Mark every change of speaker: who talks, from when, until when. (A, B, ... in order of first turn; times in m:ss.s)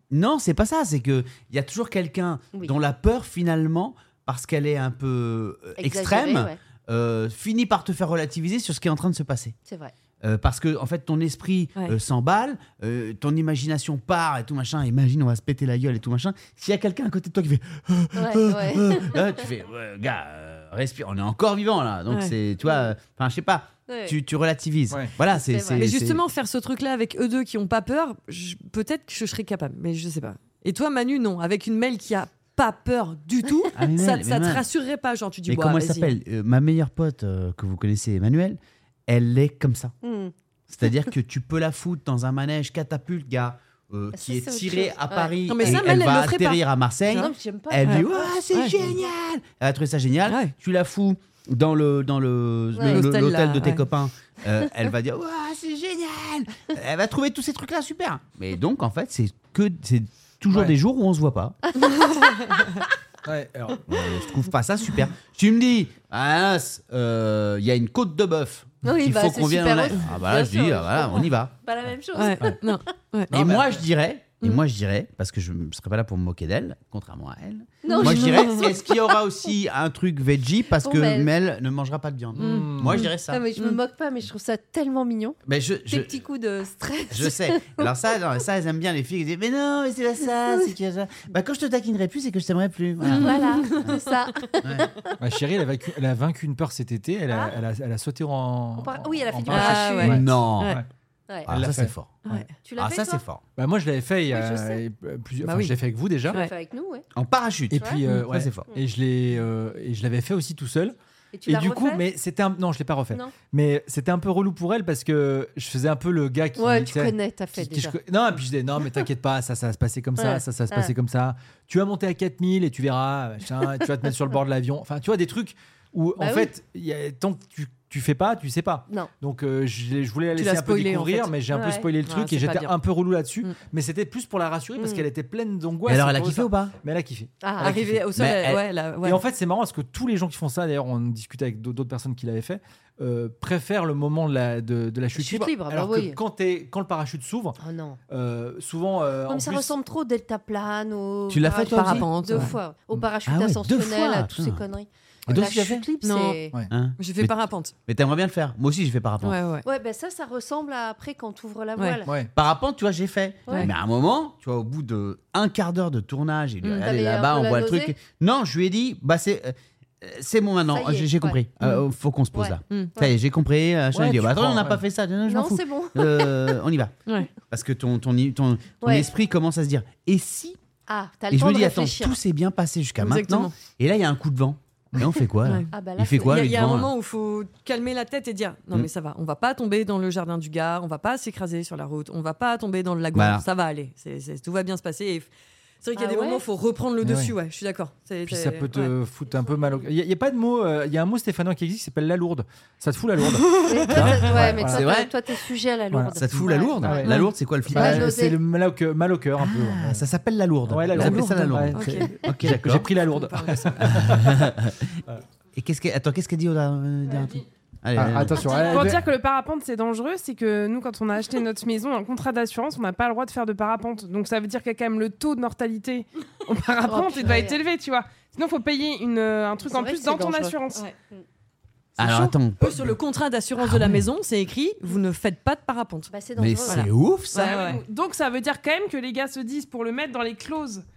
0:00.1-0:09.6 A
0:05.8-0:06.6 B
0:09.7-0:09.9 B
0:10.2-0:26.2 A
0:18.2-0:19.3 B
0:22.1-0:22.3 C
0:22.6-0:22.9 B
0:23.9-0:24.2 B
0:25.5-0:25.8 B
0:25.8-0:36.1 C
0:33.7-0:34.6 A
0:35.5-0:39.9 A
0:40.0-0:40.3 B
0:40.7-1:01.6 A
0:44.1-0:45.9 B
0:45.5-0:47.3 C
0:47.1-0:48.3 B
0:47.8-0:48.8 C
0:50.2-0:50.5 C
0:52.7-0:53.0 B
0:52.9-0:53.8 C
1:02.2-1:02.8 C
1:03.2-1:03.8 D
1:03.9-1:11.5 A
1:08.8-1:12.7 B
1:12.1-1:13.4 C
1:13.3-1:23.4 A
1:13.3-1:13.6 D
1:17.8-1:19.2 B
1:18.0-1:18.6 C
1:20.7-1:21.3 B
1:22.3-1:23.0 D
1:22.4-1:23.1 C
1:23.0-1:25.4 B
1:25.4-1:26.2 A
1:25.9-1:28.0 B
1:27.1-1:34.9 A
1:33.1-1:33.8 C
1:33.1-1:35.1 B
1:35.2-1:40.8 D
1:37.3-1:37.5 B
1:38.8-1:40.2 B
1:39.5-1:40.8 C
1:39.5-1:40.8 A
1:41.4-1:42.2 A
1:41.5-1:42.4 D
1:42.2-1:42.5 C
1:42.6-1:43.2 B
1:42.8-1:43.4 A
1:43.6-1:46.4 D
1:44.3-1:44.8 B
1:45.4-1:45.8 C
1:46.3-1:47.0 B
1:47.1-1:48.7 A
1:47.7-2:18.0 D
1:51.3-1:52.0 B
1:56.6-1:58.0 B
2:00.2-2:00.9 B
2:06.2-2:06.5 B
2:10.4-2:11.3 C
2:11.5-2:11.9 B
2:12.0-2:12.8 C
2:14.8-2:15.0 B
2:15.8-2:16.7 A
2:17.4-2:17.7 B
2:17.6-2:19.2 C
2:18.1-2:18.6 A
2:19.0-2:27.6 D
2:25.2-2:26.2 B
2:27.6-2:28.0 B
2:28.1-2:29.7 D
2:29.3-2:36.5 B
2:31.3-2:32.2 A
2:31.6-2:32.5 C
2:32.3-2:33.0 D
2:33.2-2:34.6 A
2:35.3-2:35.9 D
2:35.3-2:35.6 A
2:36.0-2:36.4 C
2:36.7-2:39.4 A
2:37.0-2:37.7 C
2:39.2-2:39.6 C
2:39.6-2:42.1 B
2:42.0-2:42.3 D
2:42.3-2:56.9 A
2:43.4-2:43.7 B
2:46.6-2:46.9 C
2:46.8-2:48.0 B
2:50.7-2:51.4 B
2:52.3-2:53.1 B
2:53.9-2:54.8 D
2:55.2-2:56.6 B
2:57.5-3:00.6 A
2:58.8-2:59.1 B
3:00.9-3:02.2 B
3:01.3-3:06.9 A
3:03.0-3:03.5 C
3:05.4-3:15.3 C
3:05.7-3:06.5 B
3:13.1-3:13.4 A
3:15.8-3:18.9 C
3:16.0-3:16.4 B
3:17.0-3:17.3 D
3:18.3-3:24.9 D
3:23.6-3:27.2 B
3:24.2-3:25.1 A
3:25.9-3:30.0 D
3:26.1-3:28.1 A
3:27.7-3:28.4 B
3:29.4-3:32.9 A
3:30.7-3:34.4 D
3:31.0-3:32.1 C
3:33.1-3:34.2 C
3:33.8-3:35.0 A
3:35.6-3:38.5 A
3:37.9-3:39.0 D
3:38.7-3:50.9 E
3:46.9-3:47.6 B
3:49.6-3:51.2 B
3:52.0-3:53.0 A
3:52.0-3:56.1 C
3:53.6-3:54.0 A
3:56.1-3:56.9 B
3:56.4-3:57.6 A
3:56.6-3:57.8 C
3:57.3-4:00.8 E